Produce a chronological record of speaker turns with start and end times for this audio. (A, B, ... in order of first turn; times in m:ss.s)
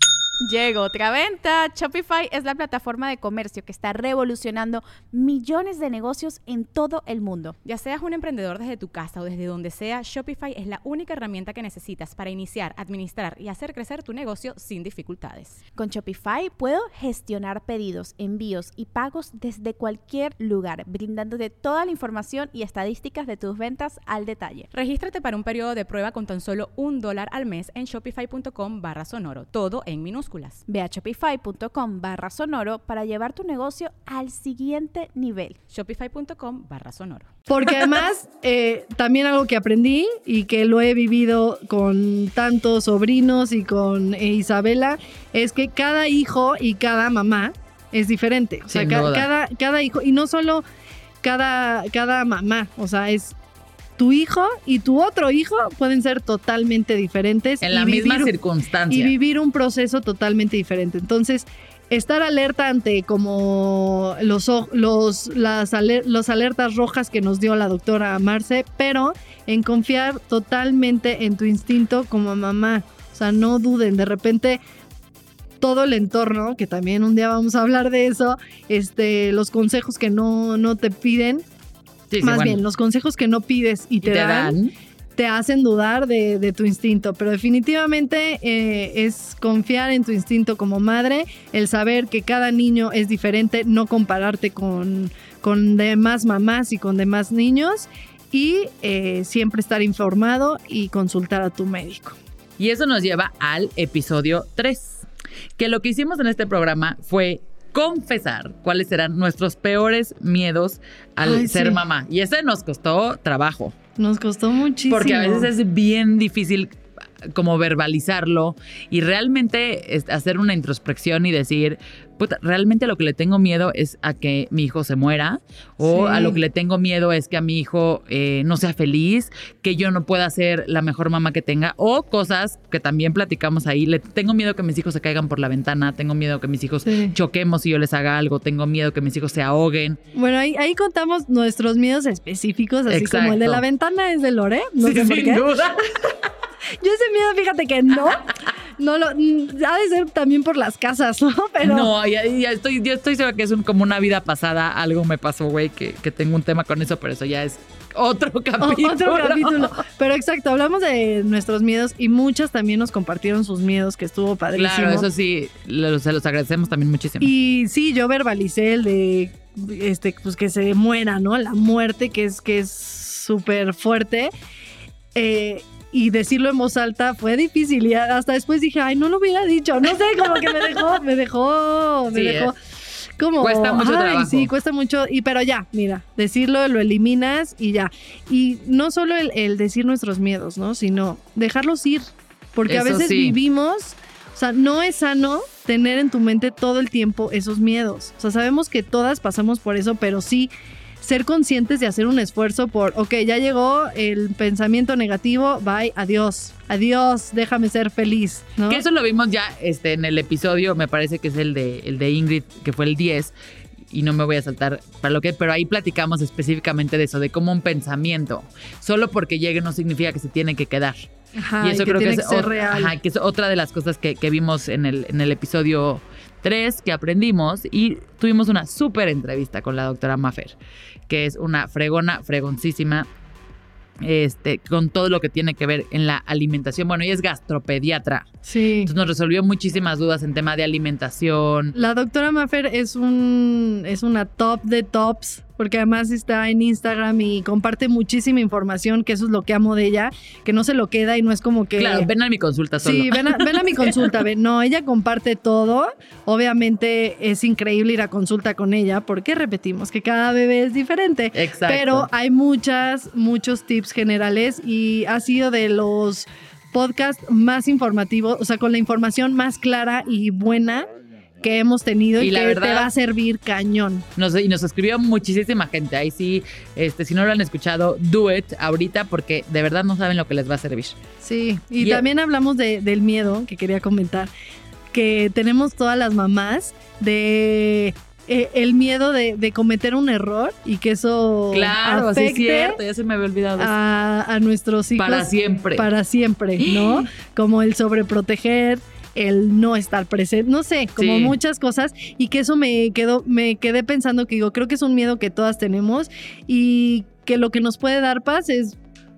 0:00.4-0:07.6 A
0:07.6-0:15.6 B
0:15.8-0:24.7 A
0:24.7-0:30.6 B
0:30.7-0:35.6 A
0:35.7-0:37.3 B
0:37.5-0:50.6 C
0:48.7-0:49.3 D
0:51.2-0:53.4 C
0:54.0-0:58.3 C
0:57.6-0:59.1 D
0:58.9-1:14.6 C
1:15.6-1:21.4 C
1:22.1-1:22.6 D
1:22.2-1:24.6 C
1:24.0-1:24.7 D
1:25.2-1:42.2 C
1:42.6-1:45.0 D
1:45.6-1:53.8 D
1:51.2-1:51.8 C
1:54.0-1:55.5 C
1:54.9-2:20.0 D
2:05.8-2:06.4 C
2:16.8-2:17.2 C
2:20.1-2:25.6 C
2:22.9-2:23.6 D
2:24.8-2:26.2 D
2:26.8-2:28.2 C
2:28.8-2:31.9 C
2:31.6-2:39.7 D
2:38.6-2:45.1 C
2:44.5-2:47.3 D
2:47.2-2:54.3 C
2:55.1-3:02.5 C
3:02.1-3:02.5 D
3:03.2-3:28.8 C
3:03.4-3:04.5 D
3:12.7-3:13.4 D
3:28.7-3:33.3 D
3:33.9-3:41.1 D
3:41.4-3:42.9 C
3:41.6-3:50.5 D
3:51.1-3:53.1 D
3:54.0-3:58.3 D
3:58.4-3:58.9 C
3:58.8-4:01.8 D
4:01.8-4:12.1 C
4:11.8-4:14.0 D
4:12.8-4:30.9 C
4:21.3-4:22.1 D
4:31.4-4:34.0 C
4:32.2-4:32.9 D
4:34.2-4:41.0 D
4:41.2-4:44.3 C
4:44.9-4:52.8 C
4:51.5-4:53.7 D
4:53.6-5:08.8 C
4:55.0-4:55.9 D
4:56.6-4:57.0 D
5:01.0-5:01.4 D